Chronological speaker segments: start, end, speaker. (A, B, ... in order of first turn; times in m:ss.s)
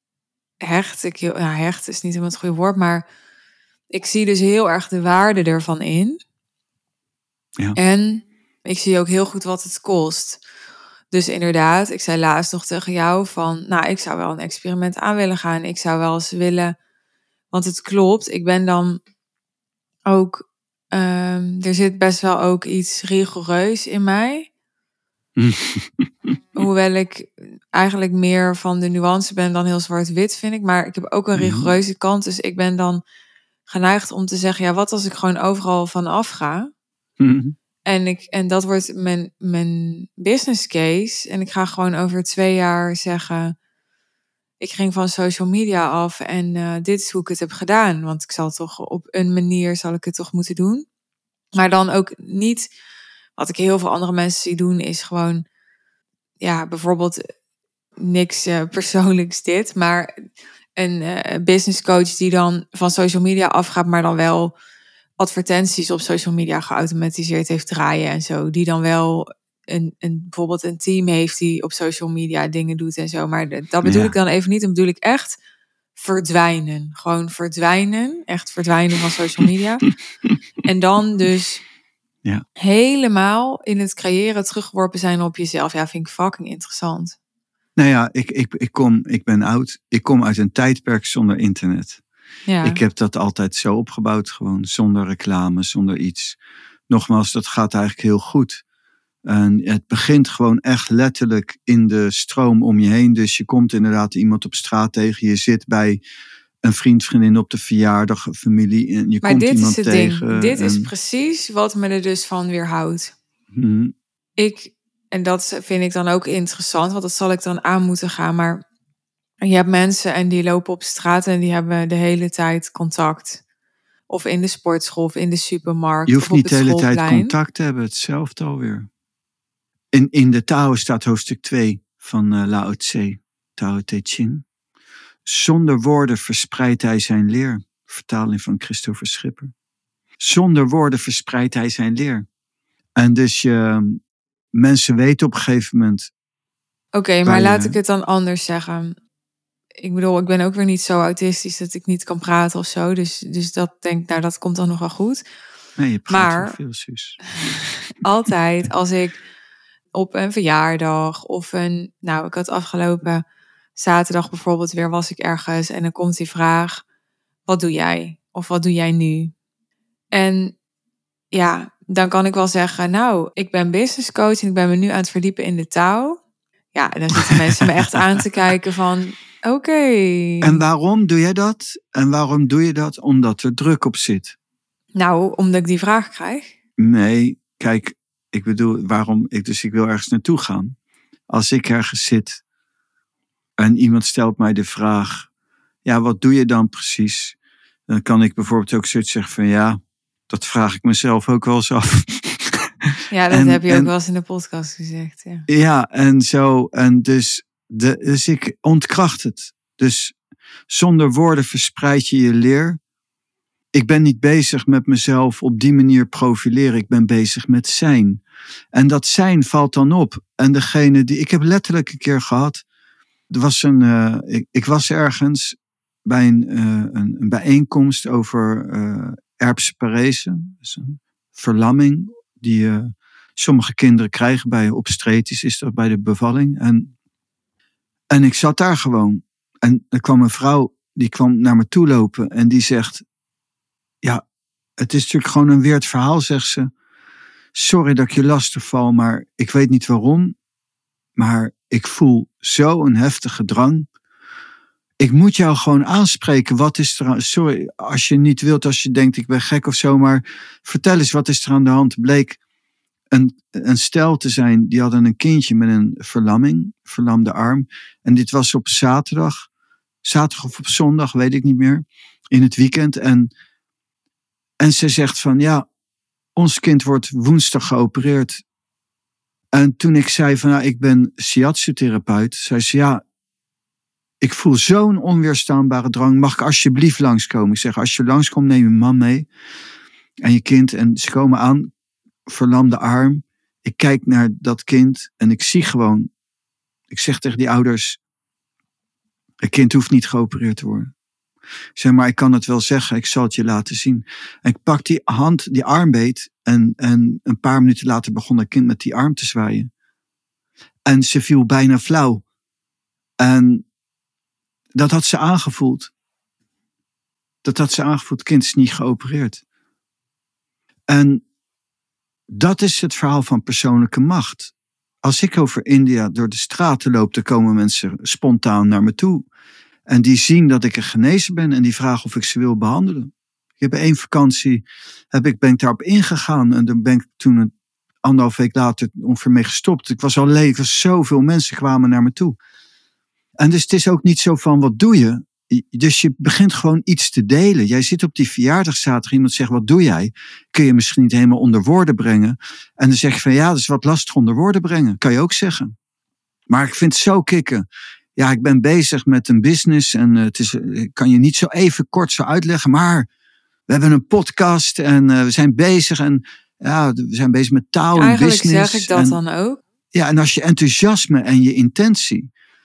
0:00.6-0:03.0 A
0:03.9-0:06.2 A
0:07.8-0:10.4 A
0:11.1-0:16.7 A
0:17.5-0:19.0 A
0:20.0-0:24.5 A
0:25.4-0:26.4 B
0:26.6-0:33.0 A
0:31.4-0:31.7 B
0:33.7-0:36.7 A
0:37.2-0:37.6 B
0:37.8-0:43.5 A
0:44.6-0:50.8 A
0:51.5-0:52.7 A
0:53.4-0:55.4 A
0:56.4-0:57.3 A
0:58.0-1:00.2 A
1:00.8-1:04.5 A
1:05.2-1:15.4 A
1:13.8-1:14.1 B
1:16.0-1:19.9 A
1:20.6-1:21.6 A
1:22.6-1:27.2 A
1:27.8-1:32.0 B
1:32.5-1:32.8 A
1:32.6-1:36.4 B
1:36.9-1:38.6 B
1:39.2-1:46.0 B
1:46.6-1:50.9 B
1:49.2-1:53.1 A
1:53.5-1:53.9 B
1:54.4-1:58.6 A
1:59.4-2:03.4 A
2:04.1-2:07.3 A
2:06.1-2:08.9 B
2:09.9-2:14.4 B
2:15.2-2:19.5 B
2:20.2-2:22.2 B
2:23.0-2:24.0 B
2:24.5-2:26.1 B
2:26.9-2:29.0 A
2:27.2-2:27.8 B
2:29.8-2:35.2 A
2:35.8-2:37.2 B
2:36.1-2:36.6 A
2:37.4-2:39.2 A
2:39.9-2:43.2 A
2:43.8-2:46.8 A
2:47.5-2:49.3 A
2:50.1-2:50.5 A
2:51.3-2:56.2 A
2:56.7-3:00.6 A
2:57.2-2:58.0 B
3:00.4-3:04.4 B
3:05.0-3:06.5 A
3:06.8-3:10.8 B
3:11.3-3:12.4 B
3:13.6-3:15.3 B
3:15.8-3:17.4 B
3:17.9-3:23.9 B
3:23.1-3:25.5 A
3:25.5-3:30.1 B
3:30.7-3:32.8 B
3:33.7-3:38.2 B
3:38.7-3:42.6 B
3:43.3-3:56.9 B
3:58.1-4:03.0 B
4:04.8-4:06.7 B
4:07.5-4:10.3 B
4:11.2-4:13.8 B
4:15.0-4:22.4 B
4:23.1-4:29.5 B
4:30.0-4:33.3 B
4:34.6-4:35.7 B
4:36.4-4:38.4 B
4:39.5-4:43.0 B
4:44.2-4:49.3 B
4:50.2-4:51.7 B
4:52.3-4:56.1 B
4:56.9-4:58.0 B
4:59.4-5:00.9 B
5:01.8-5:09.7 B
5:10.8-5:12.2 B
5:13.2-5:13.6 B
5:14.7-5:15.9 B
5:17.4-5:19.4 B
5:20.9-5:21.2 B
5:22.3-5:29.2 B
5:29.9-5:37.5 B
5:38.0-5:42.4 B
5:43.4-5:55.7 B
5:56.5-5:57.6 B
5:58.2-6:03.1 B
6:03.7-6:09.2 B
6:08.0-6:09.6 A
6:09.9-6:12.3 B